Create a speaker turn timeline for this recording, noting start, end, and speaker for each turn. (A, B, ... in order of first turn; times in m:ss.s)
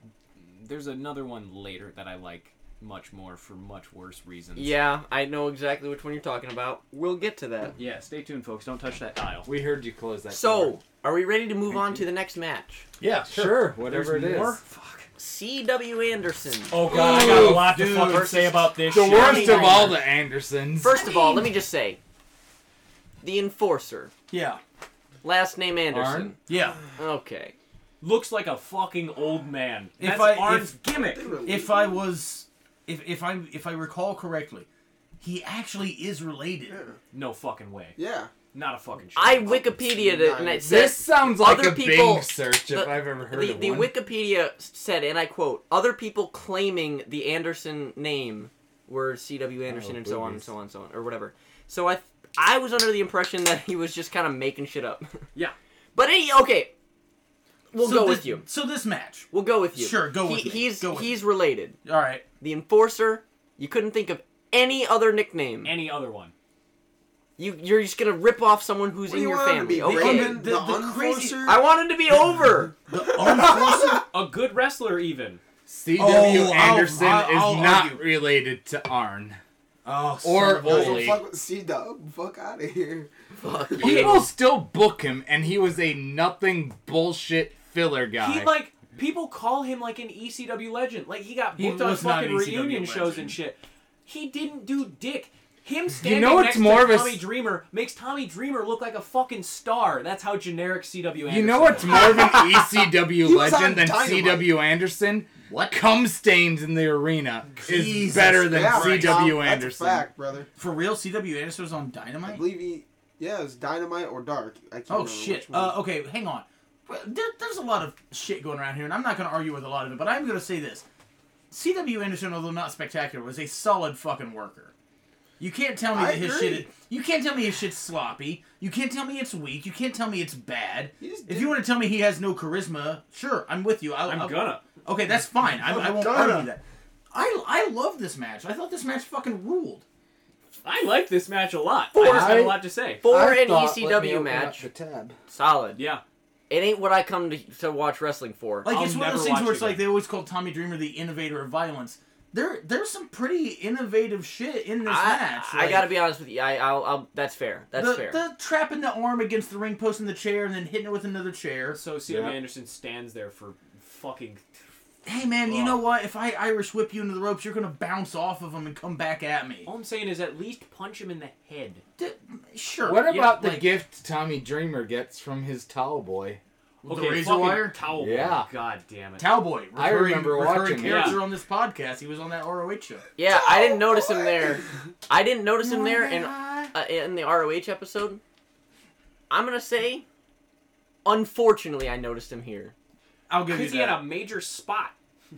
0:00.4-0:04.8 A
0:04.6-0:07.7 B
0:07.8-0:09.5 A
0:09.4-0:10.8 C
0:10.3-0:12.8 B
0:13.0-0:13.6 D
0:13.3-0:14.6 C
0:13.6-0:15.1 A
0:15.2-0:20.0 B
0:16.7-0:20.0 A
0:16.9-0:17.8 C
0:16.9-0:18.6 D
0:18.9-0:21.0 C
0:20.8-0:22.0 B
0:23.2-0:24.1 B
0:24.3-0:24.6 D
0:25.2-0:26.4 B
0:25.9-0:26.4 C
0:26.5-0:26.8 D
0:27.0-0:27.5 B
0:28.0-0:31.3 A
0:30.0-0:30.8 D
0:31.0-0:32.0 E
0:31.4-0:34.7 D
0:35.2-0:36.8 D
0:36.7-0:37.0 E
0:37.1-0:38.0 A
0:38.0-0:38.3 E
0:38.5-0:39.6 A
0:39.1-0:55.2 B
0:39.4-0:40.8 E
0:40.6-0:43.9 C
0:49.6-0:50.5 C
0:55.9-0:56.7 B
0:57.7-0:58.5 B
0:57.8-1:01.2 D
0:59.3-1:01.8 B
1:01.8-1:02.2 D
1:02.4-1:05.7 B
1:05.6-1:06.3 A
1:07.4-1:10.5 B
1:09.1-1:11.6 E
1:09.8-1:11.4 D
1:11.4-1:12.8 B
1:12.9-1:14.0 D
1:13.0-1:13.8 E
1:13.9-1:15.4 A
1:15.6-1:19.4 C
1:16.0-1:18.0 D
1:19.8-1:21.2 D
1:20.2-1:21.2 C
1:20.4-1:23.1 E
1:23.3-1:24.3 B
1:23.8-1:28.5 C
1:23.8-1:24.2 A
1:28.2-1:42.2 A
1:31.6-1:33.4 D
1:36.0-1:37.2 C
1:41.3-1:50.0 C
1:42.0-1:42.7 E
1:43.2-1:44.5 E
1:45.4-1:45.8 D
1:47.6-1:49.4 D
1:48.4-1:50.5 E
1:50.6-1:52.4 D
1:52.2-1:55.8 E
1:54.9-2:00.8 D
2:01.5-2:04.7 D
2:05.4-2:19.8 D
2:05.9-2:06.7 E
2:11.0-2:11.6 E
2:14.0-2:14.7 A
2:15.6-2:16.5 E
2:20.6-2:23.0 A
2:21.9-2:24.6 B
2:22.0-2:25.2 C
2:25.3-2:25.8 B
2:25.8-2:26.0 A
2:26.5-2:28.7 B
2:28.6-2:36.0 D
2:28.6-2:29.8 A
2:34.8-2:38.2 B
2:37.7-2:41.8 D
2:41.7-2:44.7 A
2:42.1-2:42.4 C
2:45.0-2:49.7 D
2:45.5-2:45.8 A
2:49.6-2:51.8 A
2:52.0-2:53.7 D
2:52.8-2:56.4 C
2:56.8-2:57.8 D
2:56.8-2:59.3 A
2:57.9-2:58.5 C
2:59.2-3:03.0 D
2:59.7-3:01.2 C
3:00.7-3:01.2 A
3:03.2-3:08.2 B
3:03.2-3:04.7 E
3:05.6-3:06.7 D
3:09.3-3:10.0 B
3:11.0-3:12.7 B
3:13.3-3:14.0 D
3:13.4-3:14.9 A